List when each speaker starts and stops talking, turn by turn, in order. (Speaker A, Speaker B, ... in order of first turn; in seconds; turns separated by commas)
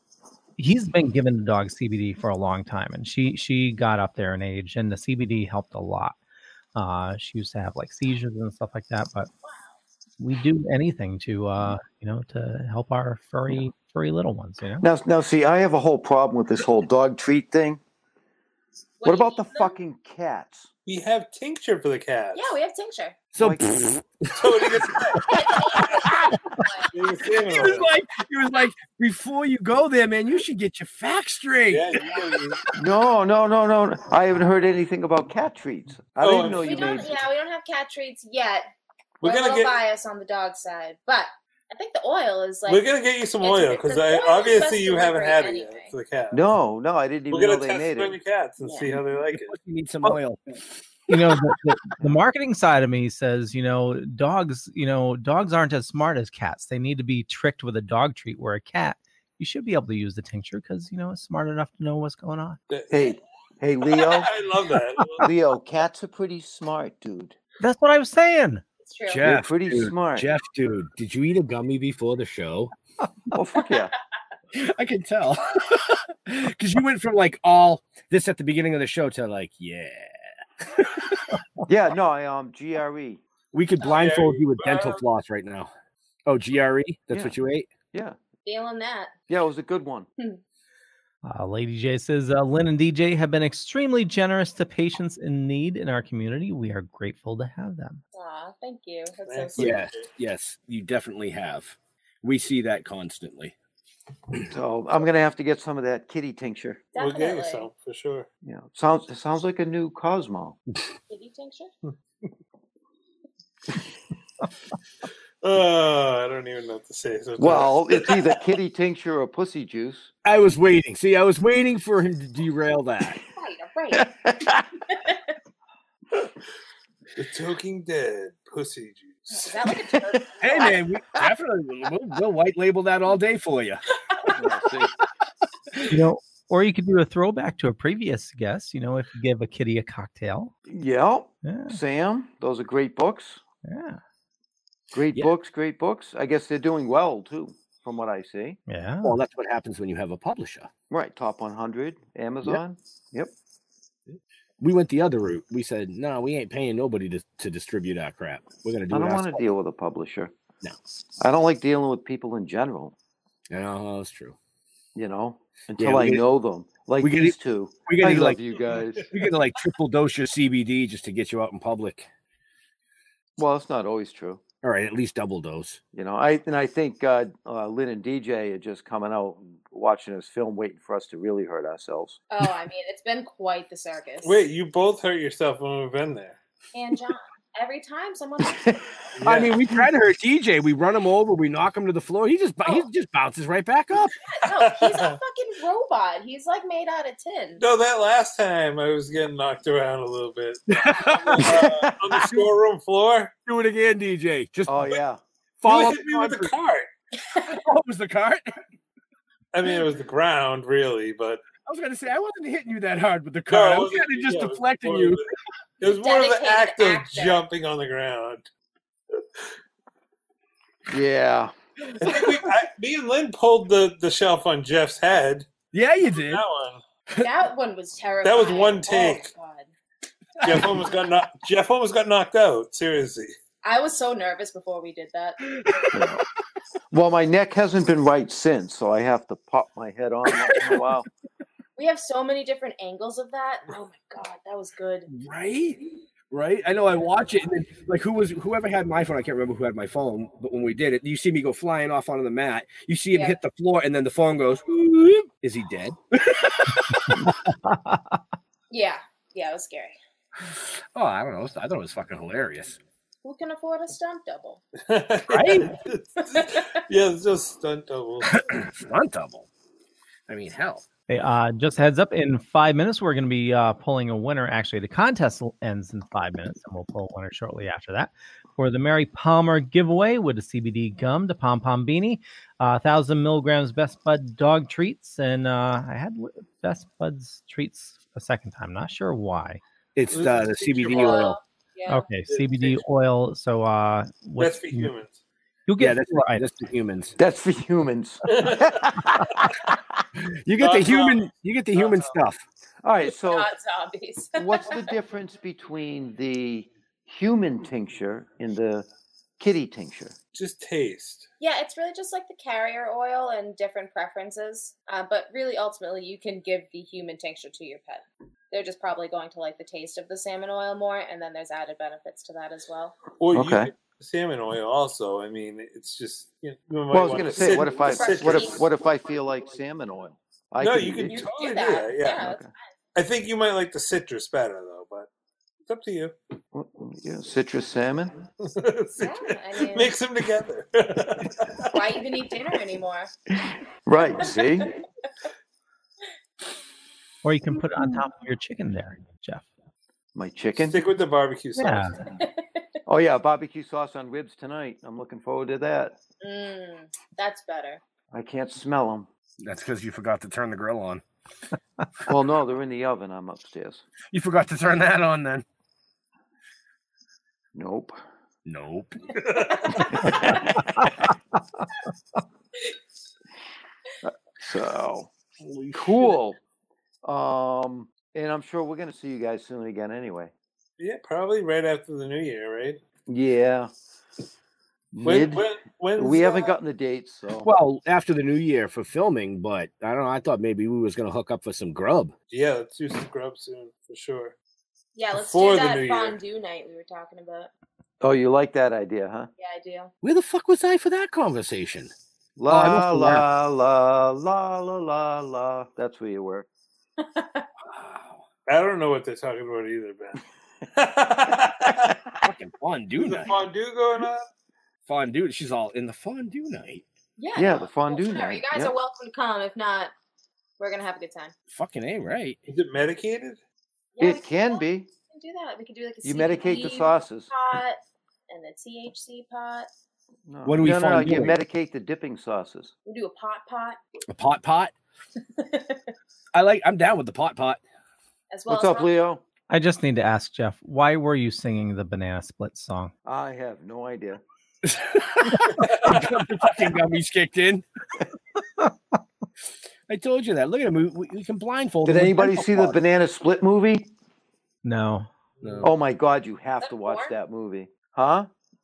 Speaker A: 0.6-6.2, Speaker A: 6.7-9.3, Speaker B: 9.4-9.7, Speaker A: 10.2-14.8, Speaker C: 14.8-17.8, Speaker B: 19.0-19.8, Speaker C: 19.0-20.7, Speaker D: 20.9-22.5, Speaker B: 22.3-23.2, Speaker E: 23.3-24.6, Speaker C: 23.4-23.7, Speaker D: 24.3-25.4, Speaker E: 25.2-26.4, Speaker B: 25.3-26.9, Speaker D: 26.9-27.9, Speaker E: 27.4-32.2, Speaker D: 31.7-32.6, Speaker C: 32.8-37.2, Speaker D: 36.2-37.0, Speaker B: 36.5-38.6, Speaker D: 39.2-39.8, Speaker B: 39.2-42.9, Speaker D: 42.7-46.5, Speaker B: 43.4-45.9, Speaker C: 46.3-48.2, Speaker D: 47.3-49.5, Speaker B: 48.6-48.9, Speaker E: 49.3-50.4, Speaker A: 51.1-62.6, Speaker D: 62.7-63.2, Speaker C: 62.9-64.3, Speaker D: 63.8-65.3, Speaker C: 65.2-67.3, Speaker A: 67.6-68.6, Speaker B: 68.8-69.2, Speaker E: 69.1-72.7, Speaker C: 69.2-70.3, Speaker C: 73.3-73.9, Speaker E: 74.5-81.3, Speaker C: 81.7-83.2, Speaker E: 83.5-85.7, Speaker D: 83.8-85.0, Speaker E: 86.3-87.7, Speaker B: 88.4-89.1, Speaker C: 89.3-90.1, Speaker A: 91.2-98.0, Speaker B: 98.1-99.8, Speaker D: 99.3-100.1, Speaker E: 99.6-103.5, Speaker C: 104.5-106.8, Speaker B: 106.9-107.7, Speaker D: 107.0-108.3, Speaker C: 108.4-110.6, Speaker B: 111.1-111.7, Speaker D: 115.4-118.3, Speaker C: 117.4-120.1, Speaker E: 120.2-123.2, Speaker B: 123.3-124.1, Speaker C: 123.9-124.6, Speaker B: 124.9-125.2, Speaker D: 127.2-129.7, Speaker B: 129.3-130.8, Speaker E: 130.4-133.8, Speaker C: 134.3-134.9, Speaker A: 135.8-140.5, Speaker C: 140.7-143.4, Speaker A: 141.4-141.8, Speaker A: 143.6-144.0, Speaker C: 144.9-148.6, Speaker A: 148.7-149.2, Speaker E: 149.0-150.7, Speaker C: 150.9-153.3, Speaker E: 154.1-159.5, Speaker C: 158.9-160.3, Speaker C: 161.2-162.9, Speaker E: 163.5-164.3, Speaker C: 164.9-169.1, Speaker E: 165.8-166.2, Speaker E: 167.0-172.1, Speaker D: 168.7-169.2, Speaker C: 173.4-174.4, Speaker E: 174.6-175.8, Speaker C: 175.9-182.2, Speaker B: 182.3-184.4, Speaker D: 184.2-186.4, Speaker B: 186.7-188.7, Speaker C: 188.4-188.8, Speaker D: 189.2-189.6, Speaker E: 189.2-194.1, Speaker B: 194.2-197.6, Speaker D: 194.6-195.2, Speaker D: 197.6-203.3, Speaker E: 200.7-201.6, Speaker C: 201.4-202.4, Speaker E: 203.5-205.0, Speaker C: 204.7-205.2, Speaker E: 205.6-206.5, Speaker D: 205.6-206.9, Speaker B: 207.3-207.6, Speaker E: 207.5-208.5, Speaker D: 209.5-211.4, Speaker E: 211.6-215.2, Speaker D: 213.5-215.2, Speaker D: 215.8-218.5, Speaker B: 215.8-217.5, Speaker C: 220.9-221.5, Speaker D: 222.0-225.5, Speaker E: 225.7-226.4, Speaker D: 226.1-226.8, Speaker B: 227.2-229.7, Speaker D: 228.2-229.3, Speaker E: 230.4-230.8, Speaker D: 230.4-233.3, Speaker B: 233.6-235.4, Speaker E: 235.6-236.0, Speaker C: 235.9-236.2, Speaker C: 236.9-241.1, Speaker B: 241.8-245.1, Speaker E: 245.1-245.8, Speaker E: 246.3-257.5, Speaker B: 253.1-253.4, Speaker A: 257.7-257.9, Speaker B: 258.7-260.0, Speaker E: 260.4-262.8, Speaker B: 263.2-264.6, Speaker D: 264.8-268.5, Speaker E: 265.3-265.7, Speaker B: 266.3-266.7, Speaker E: 268.4-269.5, Speaker E: 270.3-270.9, Speaker A: 271.1-289.6, Speaker E: 289.9-291.4, Speaker D: 290.1-291.3, Speaker B: 290.9-292.1, Speaker A: 291.9-294.9, Speaker D: 292.3-292.8, Speaker D: 294.4-295.2, Speaker A: 295.7-296.4, Speaker E: 295.8-297.1, Speaker C: 297.2-299.7, Speaker D: 298.2-298.8, Speaker E: 300.4-302.4, Speaker D: 300.6-302.1, Speaker C: 302.8-303.5, Speaker B: 303.0-304.8, Speaker C: 304.4-308.9, Speaker C: 309.4-310.1, Speaker D: 310.3-311.3, Speaker B: 311.4-322.9, Speaker D: 323.2-328.7, Speaker C: 323.3-323.7, Speaker C: 326.9-331.2, Speaker B: 327.3-328.7, Speaker D: 330.6-332.2, Speaker B: 331.1-332.6, Speaker C: 332.2-332.4, Speaker D: 332.9-335.1, Speaker D: 335.6-336.1, Speaker C: 336.5-338.1, Speaker D: 338.4-341.7, Speaker B: 339.0-339.9, Speaker B: 341.7-343.1, Speaker C: 343.9-344.7, Speaker A: 347.2-349.5, Speaker C: 350.1-350.9, Speaker D: 350.6-352.0, Speaker A: 351.6-351.9, Speaker C: 352.9-355.9, Speaker B: 356.2-357.8, Speaker C: 358.1-359.1, Speaker E: 359.4-361.0, Speaker C: 362.1-363.8, Speaker E: 364.1-365.4, Speaker C: 367.5-368.0, Speaker E: 368.4-369.1, Speaker D: 369.2-370.0, Speaker C: 370.0-370.6, Speaker C: 374.0-375.1, Speaker E: 375.4-376.1, Speaker C: 375.7-376.4, Speaker C: 377.0-380.3, Speaker D: 380.8-382.8, Speaker C: 383.1-383.7, Speaker C: 384.9-387.5, Speaker D: 385.0-386.6, Speaker E: 387.4-392.1, Speaker D: 392.3-394.3, Speaker B: 394.9-397.5, Speaker D: 395.1-396.2, Speaker C: 398.0-399.3, Speaker B: 399.4-399.9, Speaker E: 400.0-401.9, Speaker C: 402.4-406.5, Speaker E: 402.5-403.3, Speaker B: 407.0-407.5, Speaker E: 407.6-408.2, Speaker D: 408.5-410.2, Speaker D: 410.7-411.9, Speaker E: 412.2-413.3, Speaker D: 413.0-414.2, Speaker E: 414.9-416.8, Speaker B: 417.2-419.9, Speaker C: 417.4-418.7, Speaker B: 420.6-421.3, Speaker E: 421.5-422.4, Speaker D: 422.5-423.4, Speaker B: 423.9-429.7, Speaker C: 424.0-424.9, Speaker C: 426.0-427.3, Speaker C: 430.3-432.7, Speaker E: 430.4-431.4, Speaker B: 432.9-433.8, Speaker E: 434.1-434.7, Speaker B: 435.4-435.8, Speaker E: 436.3-437.6, Speaker B: 438.3-438.9, Speaker C: 438.5-439.2, Speaker A: 439.5-442.9, Speaker C: 443.0-444.2, Speaker E: 444.6-447.6, Speaker D: 445.6-446.0, Speaker E: 449.9-452.8, Speaker C: 451.8-453.9, Speaker A: 454.6-455.1, Speaker E: 455.4-455.7, Speaker C: 455.6-458.3, Speaker B: 456.6-457.1